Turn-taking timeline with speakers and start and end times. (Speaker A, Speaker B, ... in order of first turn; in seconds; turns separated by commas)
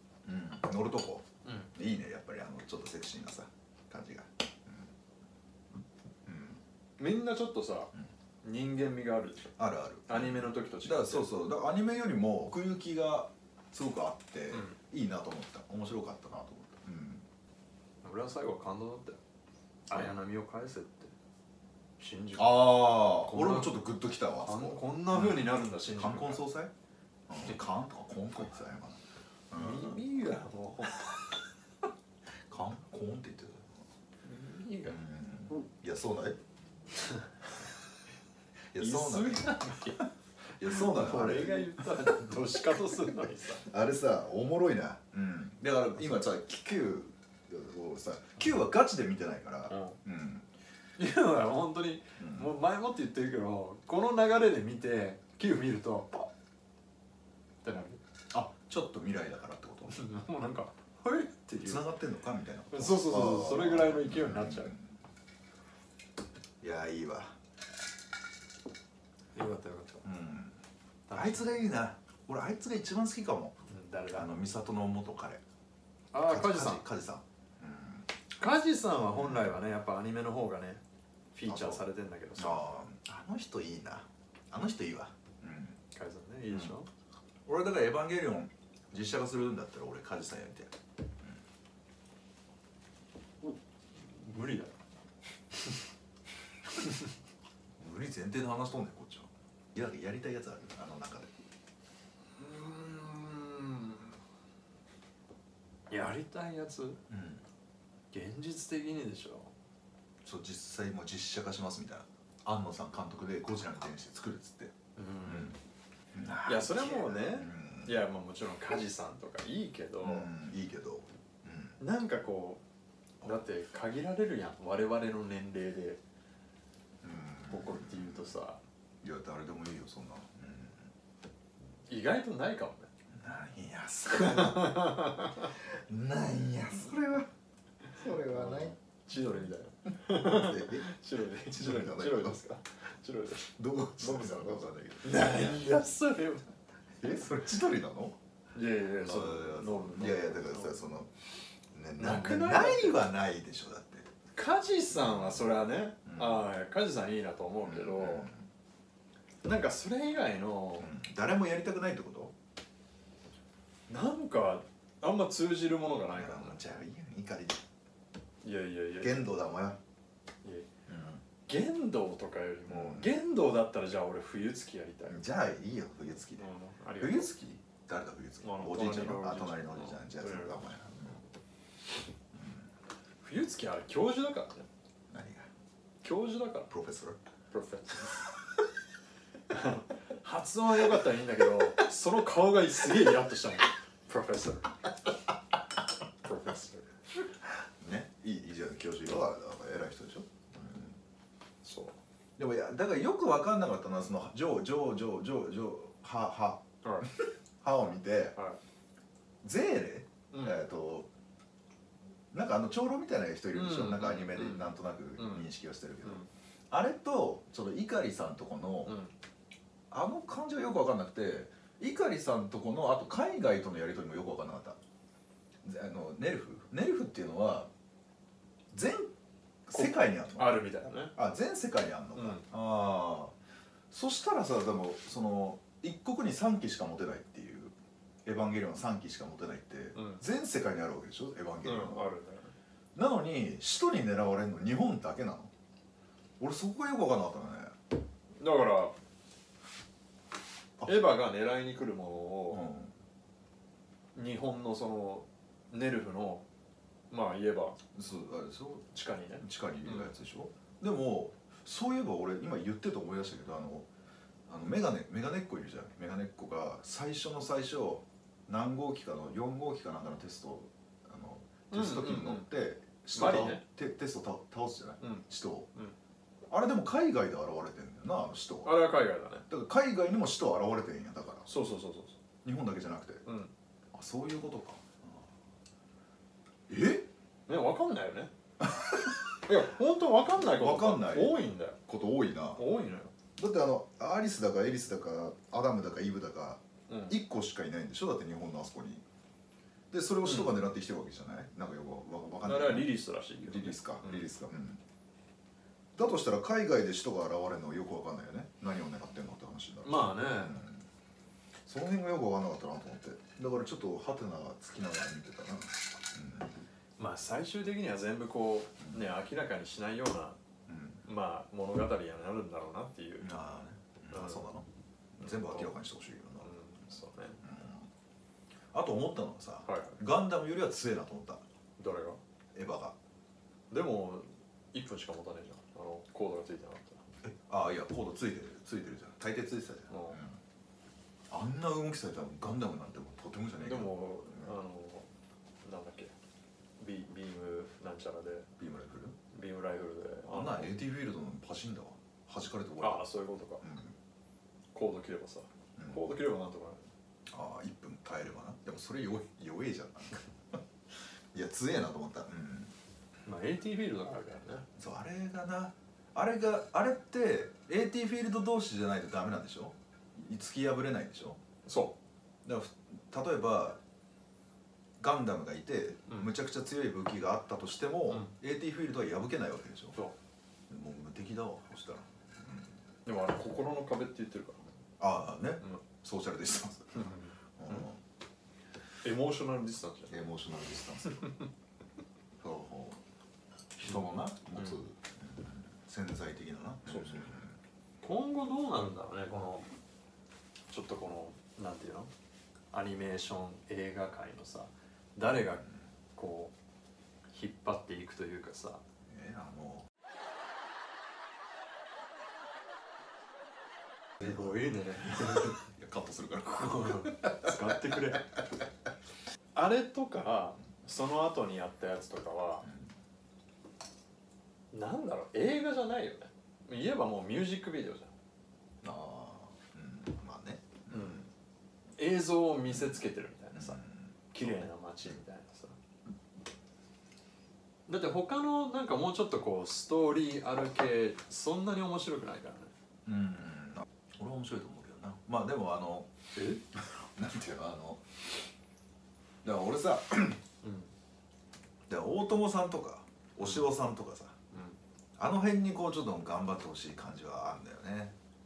Speaker A: 0.2-4.9, Speaker B: 1.4-1.7, Speaker A: 6.2-6.6, Speaker B: 7.0-9.6, Speaker A: 9.6-17.3, Speaker B: 10.1-11.3, Speaker B: 14.5-14.8, Speaker B: 18.0-19.2, Speaker B: 19.9-21.1, Speaker B: 22.0-23.8, Speaker A: 22.4-26.7, Speaker B: 24.4-26.4, Speaker A: 27.3-30.0, Speaker B: 29.5-31.2, Speaker A: 32.5-33.8, Speaker B: 34.2-35.0, Speaker A: 34.9-36.4, Speaker A: 38.7-42.1, Speaker B: 38.8-40.1, Speaker B: 40.6-43.7, Speaker A: 43.6-50.5, Speaker B: 49.7-50.0, Speaker B: 51.0-56.3, Speaker A: 52.2-52.5, Speaker B: 57.6-58.0, Speaker A: 58.3-60.0, Speaker B: 59.9-61.9, Speaker A: 61.6-64.9, Speaker B: 62.7-64.8, Speaker A: 66.6-67.4, Speaker B: 69.3-70.0, Speaker A: 70.0-70.6, Speaker B: 71.1-71.5, Speaker A: 71.1-73.6, Speaker B: 73.7-74.3, Speaker A: 74.1-75.4, Speaker B: 76.1-76.8, Speaker A: 76.2-78.1, Speaker B: 78.4-80.8, Speaker A: 79.1-79.5, Speaker B: 81.3-82.7, Speaker A: 81.5-81.8, Speaker A: 82.4-85.8, Speaker B: 85.9-86.9, Speaker A: 86.5-86.8, Speaker A: 87.5-91.4, Speaker B: 94.0-94.8, Speaker B: 95.5-95.8, Speaker B: 96.8-97.1, Speaker A: 97.8-101.3, Speaker B: 102.4-104.1, Speaker B: 105.9-107.0, Speaker A: 107.1-107.4, Speaker B: 108.1-109.5, Speaker A: 110.2-114.7, Speaker B: 115.0-115.6, Speaker A: 115.2-115.6, Speaker A: 116.1-118.0, Speaker B: 116.4-120.3, Speaker A: 120.0-121.8, Speaker B: 121.8-122.6, Speaker B: 123.2-126.0, Speaker A: 127.0-128.4, Speaker B: 127.5-128.6, Speaker A: 129.0-130.9, Speaker B: 131.9-132.9, Speaker A: 133.1-137.3, Speaker B: 134.2-135.5, Speaker A: 137.9-138.8, Speaker B: 138.0-146.5, Speaker A: 140.1-142.4, Speaker A: 143.4-145.6, Speaker A: 147.0-148.2, Speaker B: 148.5-150.8, Speaker A: 149.0-151.1, Speaker A: 151.7-154.1, Speaker B: 152.0-153.0, Speaker B: 154.3-158.3, Speaker A: 155.0-155.4, Speaker A: 156.1-156.5, Speaker A: 157.6-158.4, Speaker B: 159.4-160.9, Speaker A: 160.8-162.3, Speaker B: 163.9-166.8, Speaker A: 166.1-167.6, Speaker B: 168.4-169.3, Speaker A: 169.0-169.8, Speaker A: 170.9-171.2, Speaker B: 171.4-175.2, Speaker A: 172.7-173.1, Speaker A: 175.1-176.5, Speaker B: 176.4-177.3, Speaker A: 177.0-181.2, Speaker B: 178.4-181.2, Speaker A: 182.3-182.7, Speaker B: 183.2-184.7, Speaker A: 185.1-185.5, Speaker B: 186.0-186.7, Speaker A: 186.7-187.2, Speaker B: 187.5-188.2, Speaker B: 189.5-194.7, Speaker B: 196.2-196.9, Speaker A: 197.6-201.0, Speaker B: 201.6-202.0, Speaker A: 202.4-208.4, Speaker B: 206.8-207.1, Speaker A: 209.4-211.1, Speaker B: 210.3-210.6, Speaker A: 212.3-219.0, Speaker B: 213.5-215.5, Speaker B: 218.9-219.1, Speaker A: 219.9-224.8, Speaker A: 225.6-227.7, Speaker A: 228.7-229.1, Speaker A: 229.7-233.3, Speaker B: 229.7-231.2, Speaker B: 232.2-232.4, Speaker A: 233.9-237.7, Speaker A: 238.2-242.1, Speaker B: 239.9-240.2, Speaker B: 241.6-242.5, Speaker A: 242.9-245.5, Speaker A: 246.4-247.7, Speaker B: 248.4-248.9, Speaker B: 250.8-252.6, Speaker A: 252.5-252.9, Speaker B: 254.2-256.5, Speaker B: 257.1-257.8, Speaker A: 257.9-263.9, Speaker B: 258.9-260.1, Speaker A: 264.5-275.7, Speaker B: 271.7-272.5, Speaker B: 273.1-273.6, Speaker B: 275.0-275.9, Speaker A: 276.5-278.8, Speaker B: 278.6-279.5, Speaker A: 279.5-281.5, Speaker B: 281.5-282.2, Speaker A: 282.4-283.2, Speaker B: 283.3-283.5, Speaker A: 283.9-285.3, Speaker A: 286.7-287.1, Speaker B: 287.5-288.3, Speaker A: 288.6-289.3, Speaker B: 289.5-291.8, Speaker A: 290.3-292.6, Speaker B: 292.6-293.1, Speaker A: 293.4-299.0, Speaker B: 296.9-297.2, Speaker A: 299.9-304.8, Speaker B: 300.2-300.6, Speaker B: 302.4-304.3, Speaker A: 305.9-310.9, Speaker B: 309.8-310.6, Speaker A: 311.7-316.6, Speaker B: 317.0-320.4, Speaker A: 320.7-321.0, Speaker B: 321.1-323.5, Speaker A: 323.2-324.7, Speaker B: 324.1-324.5, Speaker A: 325.2-326.5, Speaker B: 325.2-325.8, Speaker B: 326.4-327.4, Speaker A: 327.4-327.9, Speaker A: 328.7-331.4, Speaker B: 329.6-330.0, Speaker B: 331.8-332.2, Speaker A: 332.6-333.0, Speaker B: 333.7-337.1, Speaker A: 337.2-340.4, Speaker B: 339.9-340.2, Speaker A: 341.3-344.5, Speaker B: 343.6-345.1, Speaker B: 345.6-346.1, Speaker B: 346.8-348.5, Speaker A: 348.6-349.2, Speaker B: 349.3-350.8, Speaker A: 350.3-353.1, Speaker B: 352.8-353.6, Speaker A: 353.6-353.9, Speaker B: 354.7-356.9, Speaker A: 355.8-356.0, Speaker A: 357.3-360.6, Speaker A: 361.3-362.7, Speaker B: 363.2-364.7, Speaker A: 364.8-371.4, Speaker B: 371.7-372.0, Speaker A: 372.4-373.8, Speaker A: 375.0-380.0, Speaker A: 380.7-382.7, Speaker B: 383.1-384.7, Speaker A: 385.0-388.0, Speaker B: 386.9-387.9, Speaker B: 389.0-390.3, Speaker A: 390.1-391.3, Speaker B: 391.1-391.4, Speaker A: 392.4-393.0, Speaker A: 393.8-397.6, Speaker B: 393.8-394.8, Speaker B: 396.9-397.4, Speaker B: 398.0-399.7, Speaker B: 400.7-402.1, Speaker B: 402.7-406.5, Speaker B: 407.3-408.8, Speaker A: 409.1-409.9, Speaker B: 414.2-415.6, Speaker A: 414.2-418.0, Speaker B: 416.4-418.4, Speaker B: 419.6-422.7, Speaker B: 424.7-428.1, Speaker A: 428.8-431.3, Speaker B: 430.9-431.2, Speaker B: 432.0-433.8, Speaker A: 432.7-433.0, Speaker A: 433.6-434.5, Speaker B: 434.3-435.8, Speaker B: 437.9-442.7, Speaker A: 443.1-446.1, Speaker B: 446.4-446.6, Speaker A: 446.7-448.3, Speaker A: 449.4-450.4, Speaker B: 450.6-450.9, Speaker A: 451.9-454.4, Speaker B: 453.4-453.7, Speaker B: 454.5-454.8, Speaker A: 455.2-458.1